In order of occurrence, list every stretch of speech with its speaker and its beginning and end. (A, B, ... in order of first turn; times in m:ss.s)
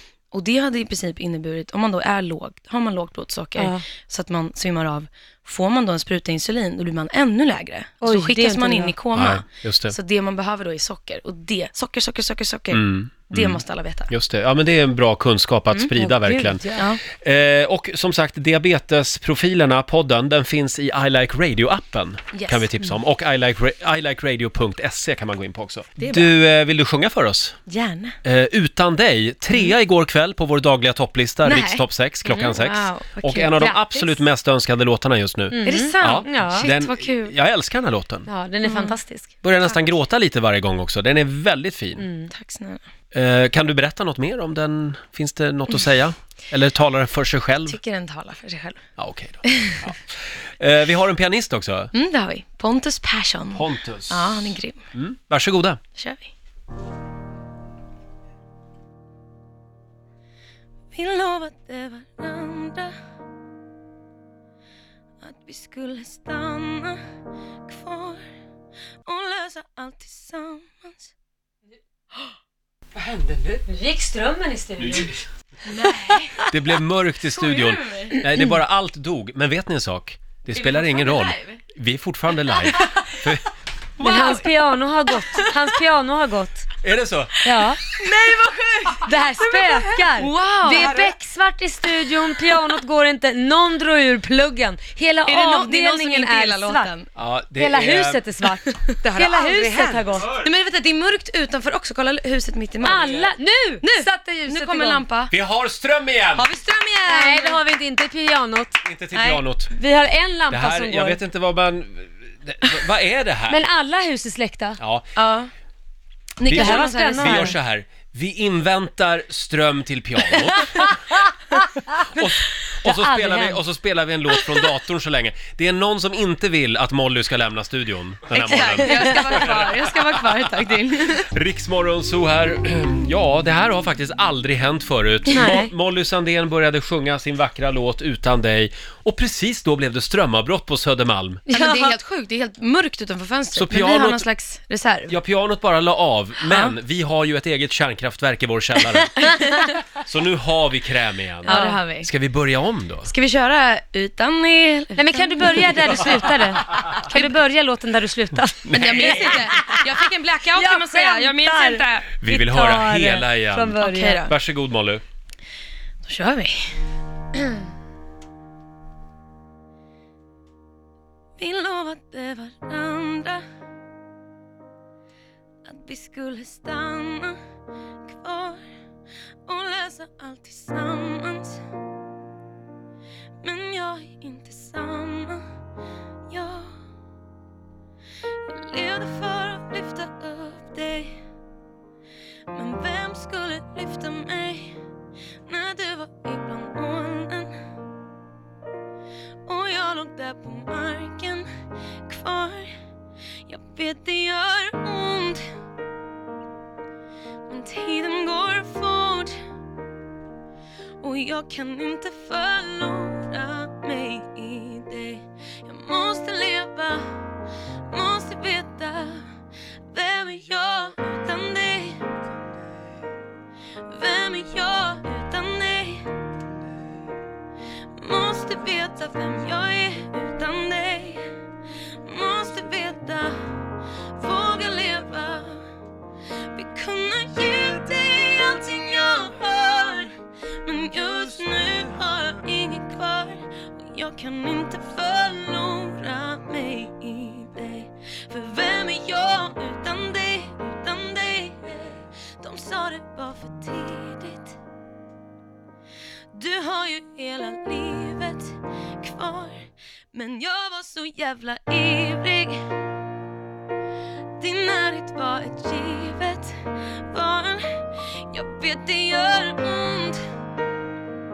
0:00.3-0:14.1 A
0:03.6-0:03.8 B
0:08.0-0:09.0 B
0:09.1-0:09.9 C
0:12.7-0:27.6 C
0:16.0-0:16.8 B
0:16.7-0:17.0 A
0:22.3-0:22.7 A
0:26.0-0:26.3 A
0:27.6-0:28.2 A
0:28.2-0:38.3 C
0:31.4-0:34.2 A
0:35.5-0:36.7 B
0:35.6-0:37.3 A
0:38.3-0:39.4 B
0:38.6-0:39.0 A
0:39.4-0:42.1 C
0:42.0-0:42.3 B
0:42.3-0:42.9 A
0:43.1-0:47.8 C
0:47.6-0:48.8 A
0:49.0-0:51.9 C
0:49.4-0:49.9 A
0:51.9-0:54.8 A
0:53.5-0:55.8 C
0:55.9-0:56.3 A
1:00.9-1:02.9 A
1:05.2-1:07.0 A
1:07.7-1:08.2 A
1:09.0-1:11.1 A
1:13.0-1:15.7 B
1:15.7-1:16.5 A
1:16.5-1:23.4 C
1:17.3-1:18.3 A
1:20.5-1:21.6 A
1:22.6-1:23.2 A
1:24.0-1:24.5 A
1:24.0-1:26.6 B
1:25.2-1:25.5 A
1:26.8-1:27.4 C
1:27.4-1:27.8 B
1:27.5-1:31.1 A
1:29.0-1:36.9 B
1:35.2-1:37.1 A
1:37.2-1:38.2 C
1:37.6-1:40.3 B
1:38.8-1:45.3 A
1:42.8-1:45.0 B
1:45.3-1:46.5 C
1:46.3-1:47.6 A
1:47.0-1:48.8 B
1:48.8-1:49.7 C
1:49.1-1:49.4 A
1:49.7-1:51.2 B
1:50.5-1:53.6 C
1:53.5-1:54.8 B
1:54.8-1:55.1 C
1:55.1-1:55.5 A
1:56.4-1:57.6 A
1:56.5-2:01.0 C
1:56.5-1:57.5 B
2:00.7-2:02.2 B
2:02.1-2:10.5 C
2:02.8-2:03.6 B
2:08.3-2:11.3 A
2:08.7-2:09.2 B
2:11.2-2:21.4 C
2:15.3-2:15.7 B
2:21.5-2:21.9 B
2:21.5-2:25.2 A
2:23.5-2:24.2 C
2:25.1-2:29.3 C
2:26.4-2:26.8 A
2:29.2-2:29.8 A
2:29.9-2:33.1 C
2:31.4-2:32.1 A
2:31.5-2:31.8 B
2:33.0-2:37.4 A
2:34.9-2:40.0 B
2:38.6-2:39.5 C
2:38.7-2:42.2 A
2:40.5-2:44.3 B
2:42.2-2:45.0 C
2:43.8-2:44.3 A
2:46.0-2:46.8 A
2:51.4-2:53.4 A
2:55.6-2:57.4 A
2:58.0-2:58.6 A
2:59.4-3:01.6 A
3:03.4-3:05.4 A
3:06.3-3:06.8 A
3:08.4-3:11.2 A
3:12.5-3:14.8 A
3:15.4-3:17.5 A
3:19.4-3:21.5 A
3:22.1-3:22.7 A
3:23.5-3:25.5 A
3:27.5-3:29.4 A
3:31.0-3:37.2 A
3:37.9-3:39.3 A
3:39.9-3:42.0 A
3:43.9-3:46.1 A
3:48.0-3:51.2 A
3:52.0-3:53.4 A
3:54.1-3:55.6 A
3:56.5-4:14.6 A
4:16.3-4:19.6 A
4:20.1-4:22.6 A
4:24.4-4:30.2 A